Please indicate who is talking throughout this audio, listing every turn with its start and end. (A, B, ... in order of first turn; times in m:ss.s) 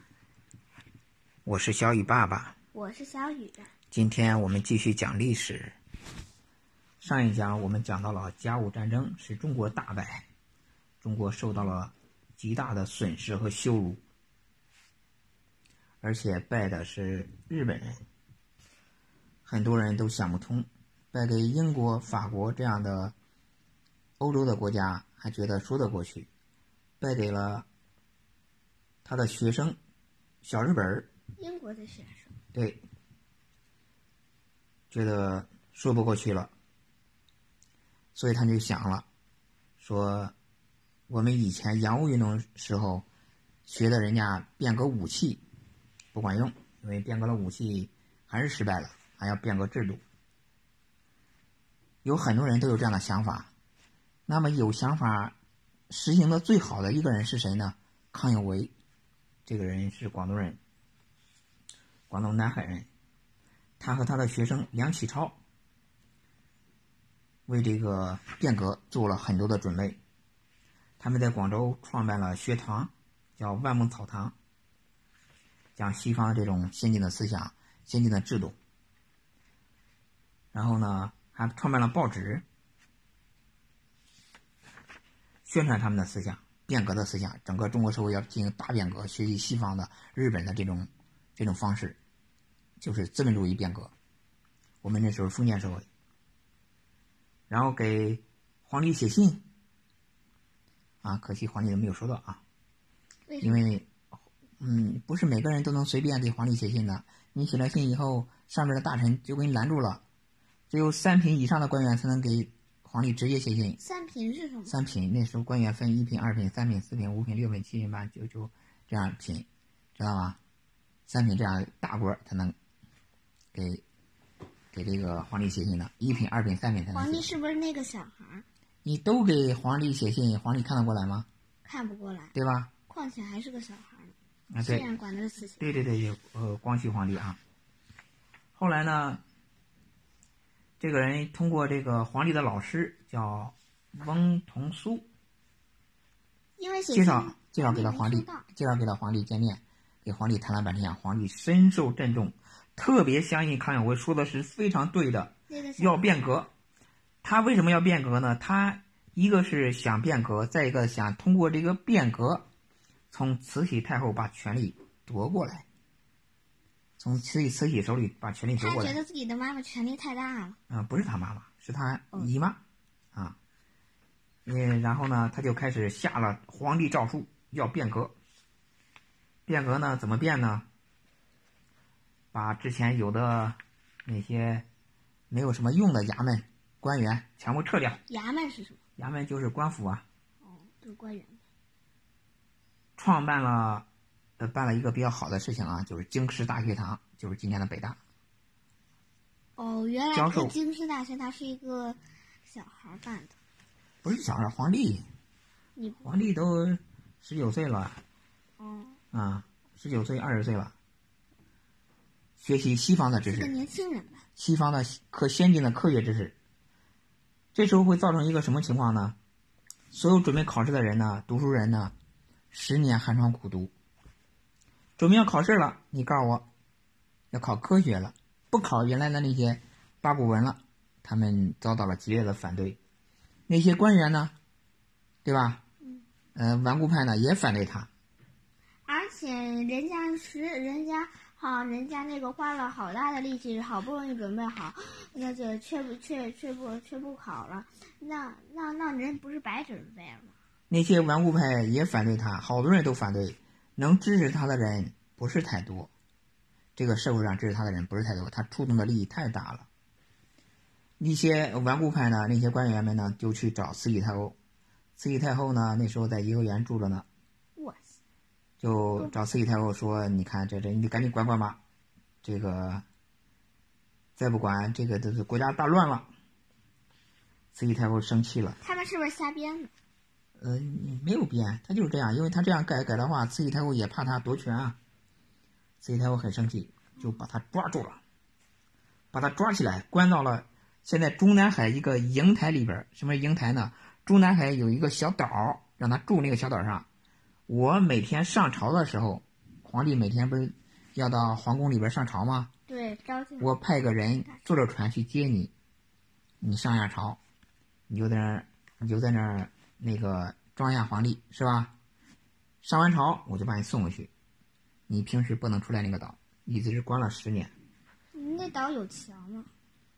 0:01.4-0:02.6 A
0:02.7-0:03.7 B
0:03.9-0:05.8 A
0:07.0-0:10.3 A
0:11.0-0:14.0 A
0:16.0-0:18.0 A
0:19.4-0:23.2 A
0:24.2-0:26.3 A
0:27.0-0:27.7 A
0:29.0-0:29.8 A
0:30.4-0:31.1 A
0:31.4-0:32.4 B
0:32.5-0:32.8 A
0:34.9-0:36.5 A
0:38.2-0:39.1 A
0:39.8-0:40.3 A
0:41.1-0:43.1 A
0:43.7-0:45.4 A
0:46.1-0:50.0 A
0:52.0-0:53.5 A
0:54.3-0:55.4 A
0:55.9-0:58.7 A
0:59.5-1:00.6 A
1:02.1-1:02.9 A
1:03.8-1:05.4 A
1:07.5-1:10.0 A
1:11.0-1:14.4 A
1:15.8-1:18.6 A
1:20.5-1:22.4 A
1:25.4-1:32.0 A
1:32.8-1:33.9 A
1:34.8-1:35.9 A
1:37.5-1:39.4 A
1:41.0-1:42.4 A
1:43.3-1:43.7 B
1:43.4-1:43.9 A
1:44.6-1:50.0 A
1:50.7-1:53.8 A
1:53.8-1:54.8 B
1:54.7-2:00.4 A
2:01.1-2:02.6 A
2:03.5-2:03.8 A
2:04.7-2:07.3 A
2:06.9-2:08.4 B
2:08.8-2:11.3 A
2:11.6-2:12.3 B
2:12.3-2:12.7 A
2:12.9-2:15.7 B
2:14.5-2:14.9 A
2:15.6-2:17.4 A
2:18.5-2:19.2 A
2:20.8-2:25.1 A
2:26.6-2:28.5 B
2:26.9-2:36.5 A
2:35.5-2:36.2 B
2:37.2-2:42.5 A
2:43.1-2:45.6 A
2:47.0-2:49.0 A
2:48.6-2:50.6 B
2:50.7-2:52.6 A
2:54.5-2:58.1 A
2:59.5-3:00.7 A
3:02.3-3:04.7 A
3:05.3-3:08.0 A
3:08.1-3:08.8 B
3:09.0-3:10.0 A
3:10.4-3:11.4 B
3:13.0-3:13.9 A
3:14.4-3:18.0 A
3:19.6-3:23.4 B
3:20.1-3:20.6 A
3:24.0-3:25.1 A
3:25.8-3:26.3 B
3:26.0-3:28.0 A
3:28.6-3:29.0 B
3:29.1-3:30.8 A
3:32.4-3:33.5 A
3:33.2-3:34.2 B
3:34.4-3:36.4 A
3:37.5-3:39.2 A
3:39.9-3:41.9 A
3:42.5-3:43.7 A
3:45.0-3:46.5 A
3:47.3-3:52.8 A
3:53.5-3:54.3 A
3:55.2-3:55.6 A
3:56.4-3:57.9 A
3:58.9-4:10.3 B
4:10.7-4:15.9 A
4:16.8-4:19.7 A
4:21.0-4:24.4 A
4:25.0-4:27.1 A
4:27.6-4:28.0 B
4:28.6-4:31.6 A
4:32.2-4:32.8 A
4:34.2-4:36.1 A
4:37.5-4:38.6 A
4:38.6-4:39.7 B
4:40.4-4:44.8 A
4:45.8-4:48.0 A
4:49.1-4:56.9 A
4:57.5-5:02.5 A
5:02.7-5:03.6 B
5:03.4-5:05.5 A
5:06.4-5:07.2 A
5:07.9-5:11.7 A
5:12.6-5:14.1 A
5:14.9-5:17.5 A
5:18.1-5:19.5 B